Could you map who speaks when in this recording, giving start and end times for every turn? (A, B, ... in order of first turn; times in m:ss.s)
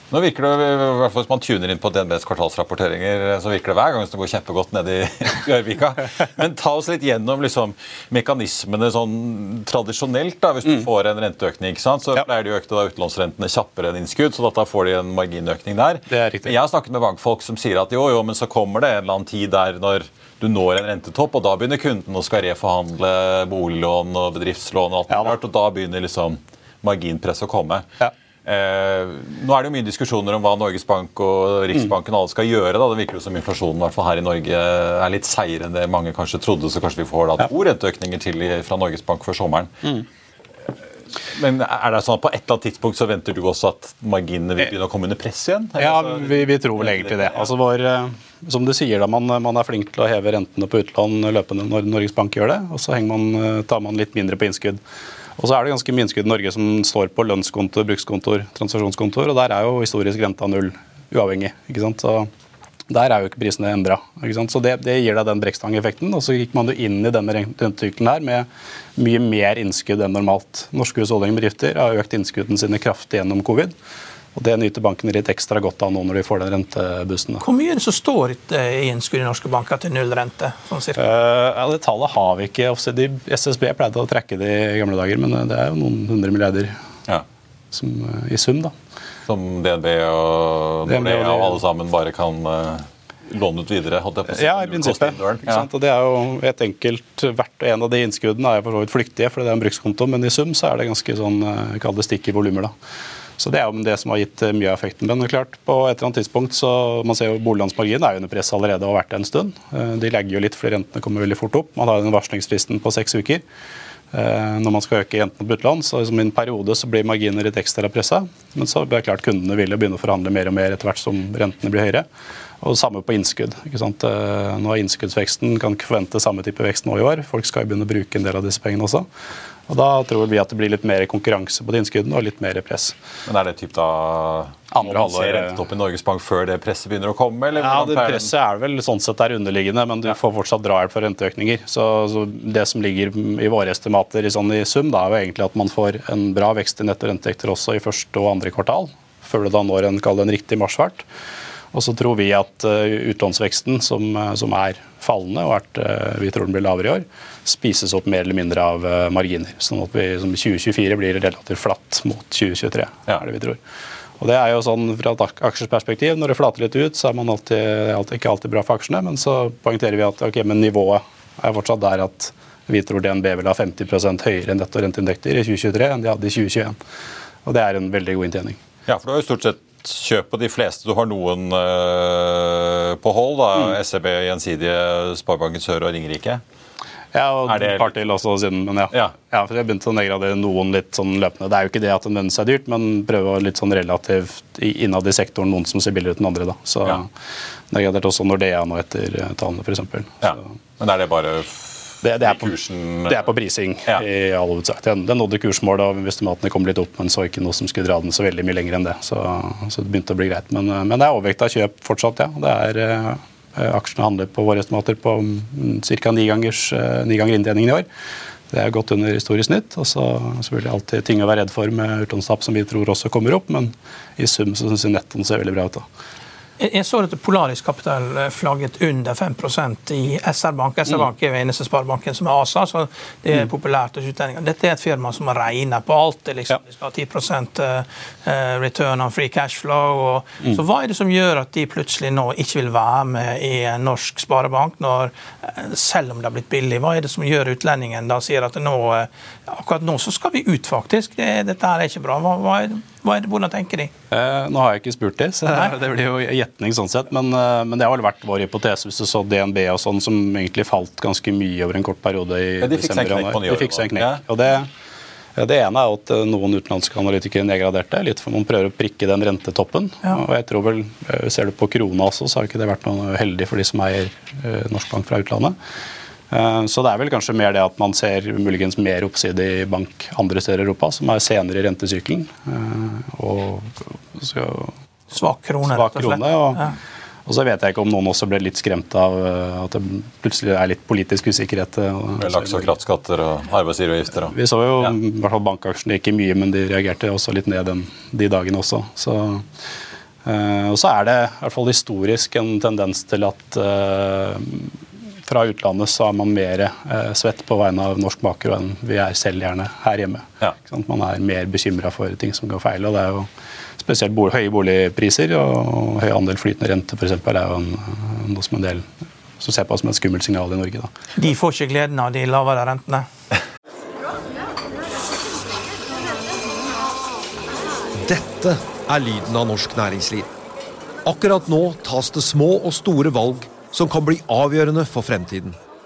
0:00.1-0:27.8 A
0:16.1-0:16.6 B
0:28.4-0:39.9 A
0:41.3-0:47.4 A
0:45.8-0:54.8 B
0:55.4-1:02.3 B
1:02.9-1:13.7 B
1:14.3-1:17.4 B
1:17.4-1:21.0 C
1:21.0-1:26.8 B
1:27.7-1:28.7 B
1:29.2-1:35.6 A
1:30.8-1:31.6 B
1:34.3-1:42.7 B
1:43.4-1:53.4 B
1:54.1-2:02.1 B
2:02.6-2:09.1 B
2:09.7-2:13.0 B
2:13.2-2:18.3 A
2:14.7-2:15.6 B
2:17.5-2:31.0 B
2:31.7-2:43.6 B
2:44.2-2:56.8 B
2:57.4-2:58.6 B
2:58.9-3:06.4 A
3:07.1-3:17.1 B
3:07.4-3:08.0 A
3:17.7-3:20.4 B
3:20.2-3:23.3 A
3:22.0-3:22.5 B
3:23.1-3:37.9 B
3:38.5-3:45.8 B
3:46.6-4:13.9 C
4:14.1-4:24.7 B
4:22.6-4:24.2 A
4:25.4-4:35.6 B
4:36.3-4:44.7 B
4:45.1-4:46.7 C
4:45.7-4:46.7 B
4:47.2-4:52.7 B
4:52.2-4:54.9 A
4:54.3-4:59.5 B
5:00.2-5:04.7 B
5:05.2-5:20.9 B
5:21.2-5:23.1 C
5:28.0-5:30.3 D
5:31.0-5:35.6 D